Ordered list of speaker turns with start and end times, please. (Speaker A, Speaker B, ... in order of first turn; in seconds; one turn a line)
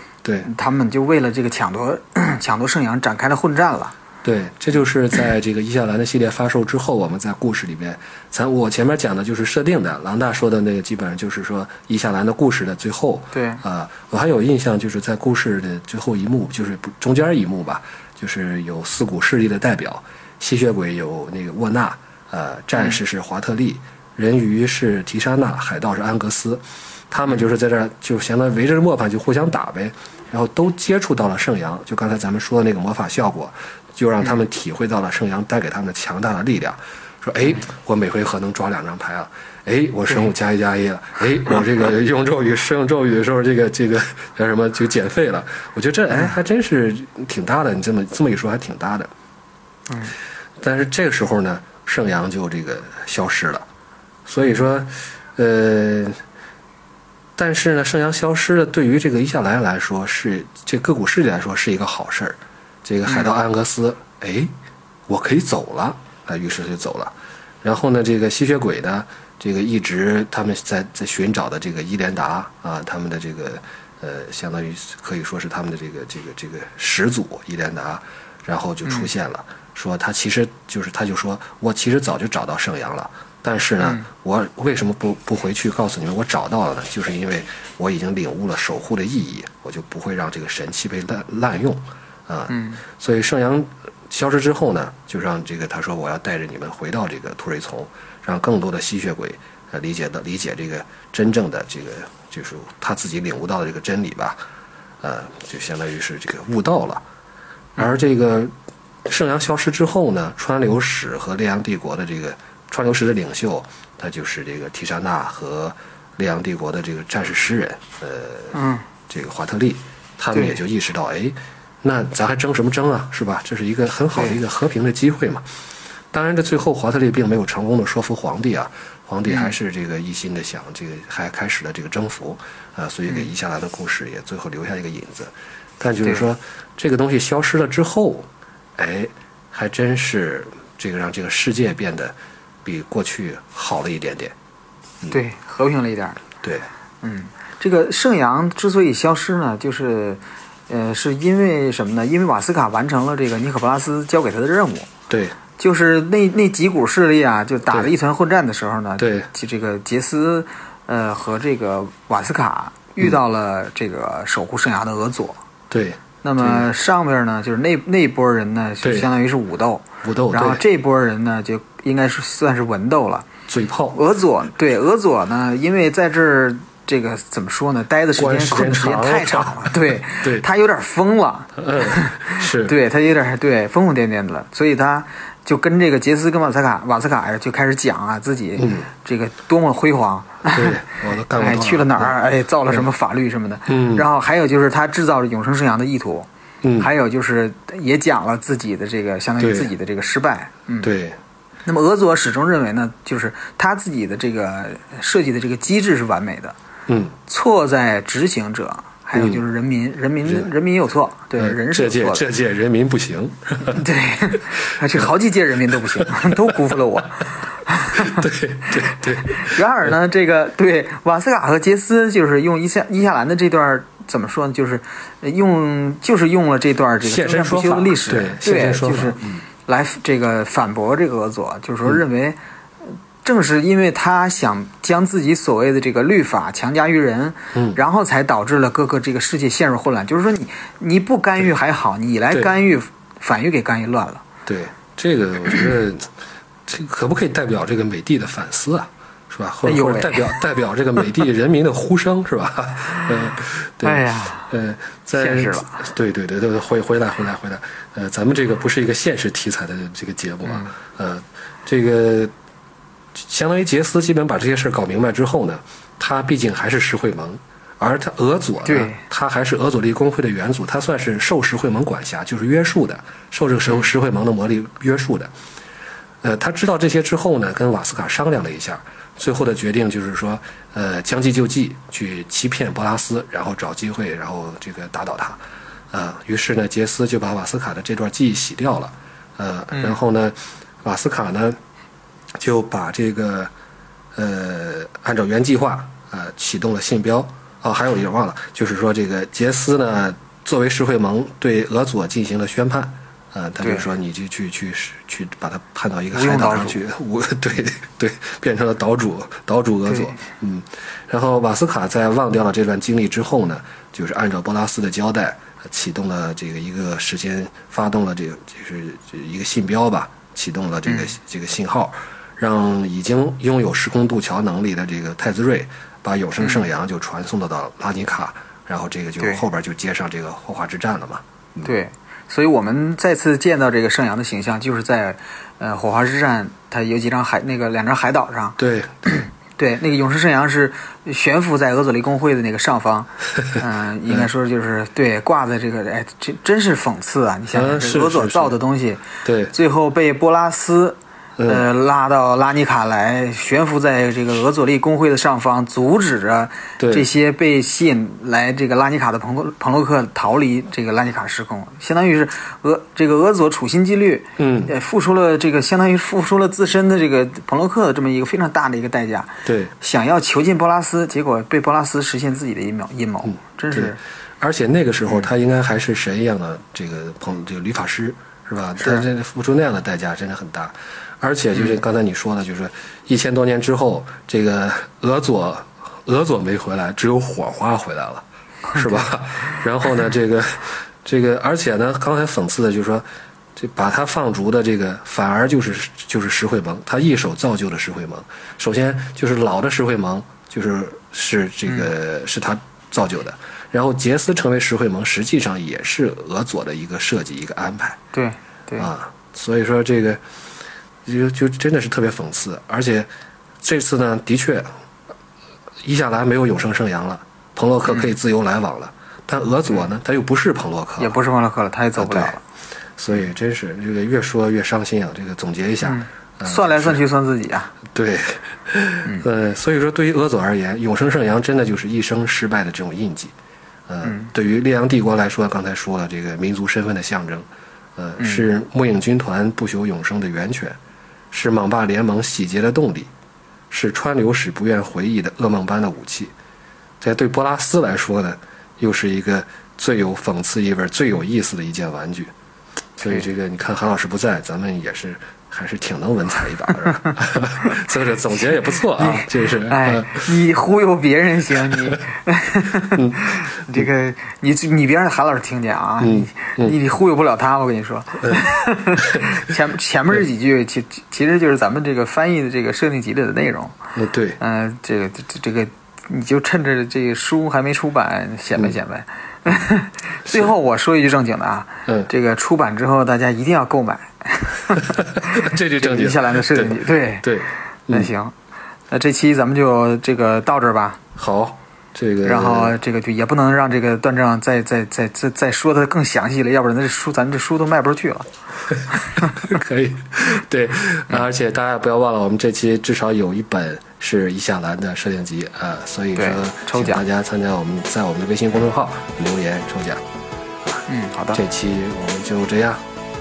Speaker A: 0.2-0.5
Speaker B: 0.4-3.9
Speaker A: 4.2-49.1
Speaker B: 13.3-13.6
Speaker B: 49.9-50.1
Speaker A: 50.6-53.6
Speaker A: 54.2-56.2
Speaker A: 57.4-64.5
Speaker A: 65.1-104.4
Speaker B: 78.8-79.1
Speaker B: 83.8-84.1
Speaker B: 92.5-92.8
Speaker A: 105.0-107.0
Speaker A: 107.8-108.5
Speaker A: 109.0-118.5
Speaker B: 118.5-118.8
Speaker A: 119.1-125.4
Speaker B: 120.3-120.6
Speaker A: 126.1-144.3
Speaker B: 129.2-129.5
Speaker B: 136.0-136.3
Speaker B: 145.1-146.2
Speaker B: 147.0-154.9
Speaker A: 155.1-155.3
Speaker B: 155.6-165.4
Speaker A: 159.0-159.3
Speaker A: 165.7-166.7
Speaker B: 166.2-173.3
Speaker A: 170.0-170.6
Speaker A: 173.5-174.0
Speaker B: 173.9-190.8
Speaker A: 178.2-180.4
Speaker A: 181.6-182.7
Speaker A: 188.6-188.9
Speaker A: 190.5-192.1
Speaker B: 191.3-200.9
Speaker A: 193.7-194.1
Speaker A: 196.6-196.9
Speaker A: 199.4-199.7
Speaker A: 200.8-201.2
Speaker B: 201.7-206.6
Speaker A: 206.9-207.1
Speaker B: 207.3-212.2
Speaker A: 209.1-209.4
Speaker A: 211.4-213.8
Speaker B: 213.6-218.3
Speaker A: 216.0-216.3
Speaker A: 217.9-219.9
Speaker B: 218.9-244.2
Speaker A: 227.0-229.4
Speaker A: 237.5-237.8
Speaker A: 244.4-246.1
Speaker A: 246.7-262.3
Speaker B: 249.6-250.4
Speaker B: 253.8-254.5
Speaker B: 255.1-255.8
Speaker B: 260.4-260.7
Speaker A: 263.1-275.3
Speaker B: 268.6-269.0
Speaker A: 276.2-285.4
Speaker A: 285.9-291.6
Speaker A: 292.4-293.5
Speaker A: 294.1-331.7
Speaker B: 303.6-303.9
Speaker B: 306.1-306.8
Speaker B: 309.9-310.1
Speaker B: 320.9-321.1
Speaker B: 331.6-374.0
Speaker A: 338.6-339.1
Speaker A: 347.5-348.6
Speaker A: 349.2-349.5
Speaker A: 351.4-351.6
Speaker A: 356.8-357.1
Speaker A: 364.4-364.7
Speaker A: 369.4-369.7
Speaker A: 373.2-393.0
Speaker B: 378.8-379.1
Speaker B: 381.6-381.8
Speaker B: 388.7-389.1
Speaker A: 393.6-408.0
Speaker B: 408.1-408.9
Speaker A: 408.8-410.2
Speaker A: 411.1-413.1
Speaker A: 413.6-414.7
Speaker A: 415.8-421.1
Speaker B: 417.9-418.1
Speaker B: 421.0-422.4
Speaker A: 422.0-422.3
Speaker A: 423.0-427.0
Speaker B: 425.8-427.7
Speaker A: 427.9-433.3
Speaker A: 433.9-440.8
Speaker B: 434.0-434.3
Speaker B: 438.2-438.4
Speaker A: 441.3-443.1
Speaker A: 443.7-446.3
Speaker A: 447.0-452.3
Speaker A: 453.0-460.3
Speaker B: 453.0-453.2
Speaker B: 458.9-473.8
Speaker A: 462.9-463.9
Speaker A: 466.0-466.8
Speaker A: 469.0-469.3
Speaker A: 473.9-474.4
Speaker B: 474.4-487.3
Speaker A: 485.0-488.1
Speaker B: 487.9-488.3
Speaker B: 488.9-491.0
Speaker A: 491.1-492.7
Speaker B: 492.2-498.3
Speaker A: 498.8-510.0
Speaker B: 499.0-499.3
Speaker B: 506.1-507.0
Speaker A: 510.6-512.8
Speaker B: 510.9-511.4